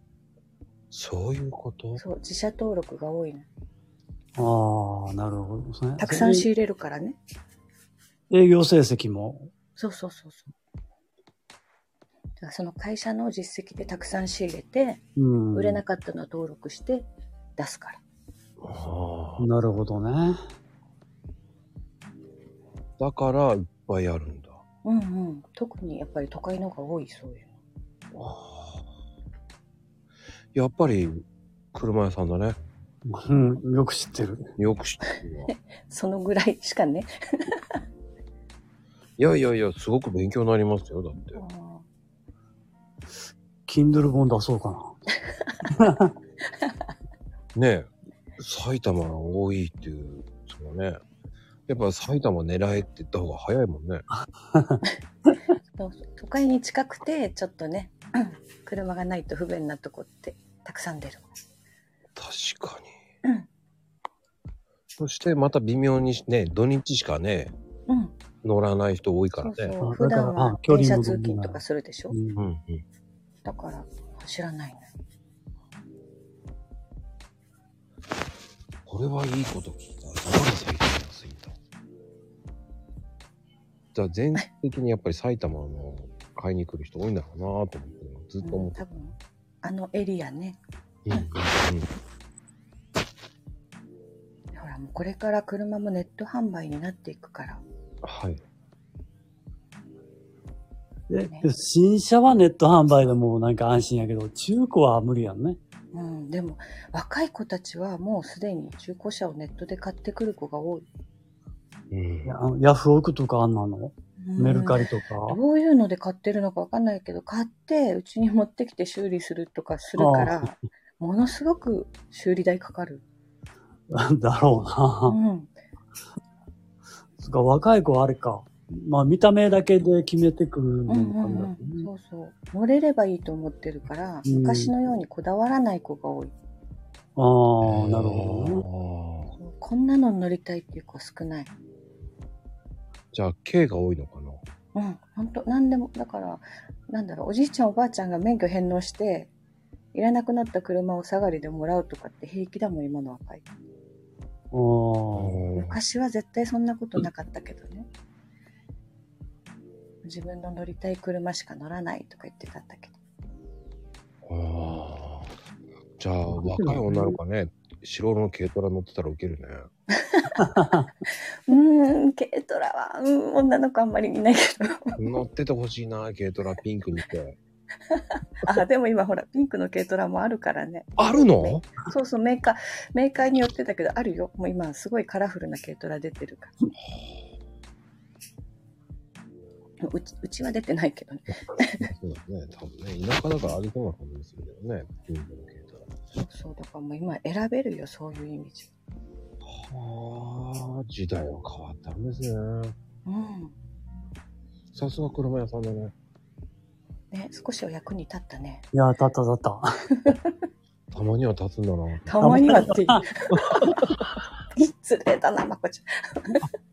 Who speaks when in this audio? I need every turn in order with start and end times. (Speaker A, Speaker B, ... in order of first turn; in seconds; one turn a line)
Speaker A: 0.9-2.0
Speaker B: 2.0-3.5
Speaker C: 4.4-6.5
Speaker B: 6.0-7.2
Speaker C: 8.3-9.5
Speaker B: 9.8-10.5
Speaker B: 12.4-18.0
Speaker C: 15.2-15.8
Speaker A: 18.6-19.5
Speaker C: 19.4-20.4
Speaker A: 23.0-24.6
Speaker B: 24.8-27.6
Speaker A: 28.1-28.8
Speaker A: 30.5-32.6
Speaker C: 33.1-34.4
Speaker A: 34.6-35.5
Speaker B: 35.1-37.8
Speaker A: 39.2-41.4
Speaker B: 41.3-41.8
Speaker C: 43.7-45.0
Speaker B: 45.3-45.7
Speaker C: 45.7-46.1
Speaker A: 47.5-51.0
Speaker A: 51.7-54.0
Speaker C: 54.5-54.8
Speaker B: 55.7-61.3
Speaker A: 62.1-62.9
Speaker A: 65.0-67.5
Speaker B: 67.9-68.2
Speaker A: 68.4-69.7
Speaker B: 69.4-72.2
Speaker C: 69.8-71.6
Speaker C: 72.1-72.4
Speaker A: 72.4-72.8
Speaker B: 73.4-74.9
Speaker A: 78.8-81.6
Speaker A: 83.9-88.8
Speaker B: 88.4-90.6
Speaker A: 91.0-91.9
Speaker B: 94.5-97.6
Speaker A: 98.0-98.4
Speaker C: 101.1-105.6
Speaker B: 105.9-110.8
Speaker A: 111.9-112.4
Speaker C: 112.2-115.4
Speaker B: 114.2-123.0
Speaker C: 120.0-120.5
Speaker C: 123.9-125.2
Speaker B: 125.1-125.5
Speaker C: 127.2-131.9
Speaker B: 130.9-136.3
Speaker C: 134.2-134.7
Speaker C: 137.2-138.6
Speaker A: 137.6-139.3
Speaker B: 139.3-141.5
Speaker A: 143.1-144.4
Speaker B: 144.7-149.3
Speaker B: 149.9-153.4
Speaker C: 154.5-155.3
Speaker A: 155.1-155.8
Speaker B: 155.6-157.9
Speaker B: 160.0-162.9
Speaker A: 164.2-165.3
Speaker A: 166.0-169.7
Speaker C: 166.5-167.1
Speaker B: 169.9-170.4
Speaker C: 170.4-170.9
Speaker B: 171.5-175.0
Speaker A: 175.0-177.4
Speaker B: 177.9-186.5
Speaker A: 181.0-181.7
Speaker B: 189.8-191.9
Speaker A: 191.8-195.9
Speaker B: 196.1-198.7
Speaker A: 199.4-202.8
Speaker B: 203.1-203.6
Speaker A: 204.7-205.9
Speaker B: 207.1-208.6
Speaker C: 208.7-209.7
Speaker B: 210.0-210.3
Speaker A: 210.9-212.1
Speaker B: 212.1-213.7
Speaker C: 212.2-213.0
Speaker A: 213.3-213.9
Speaker B: 214.6-216.5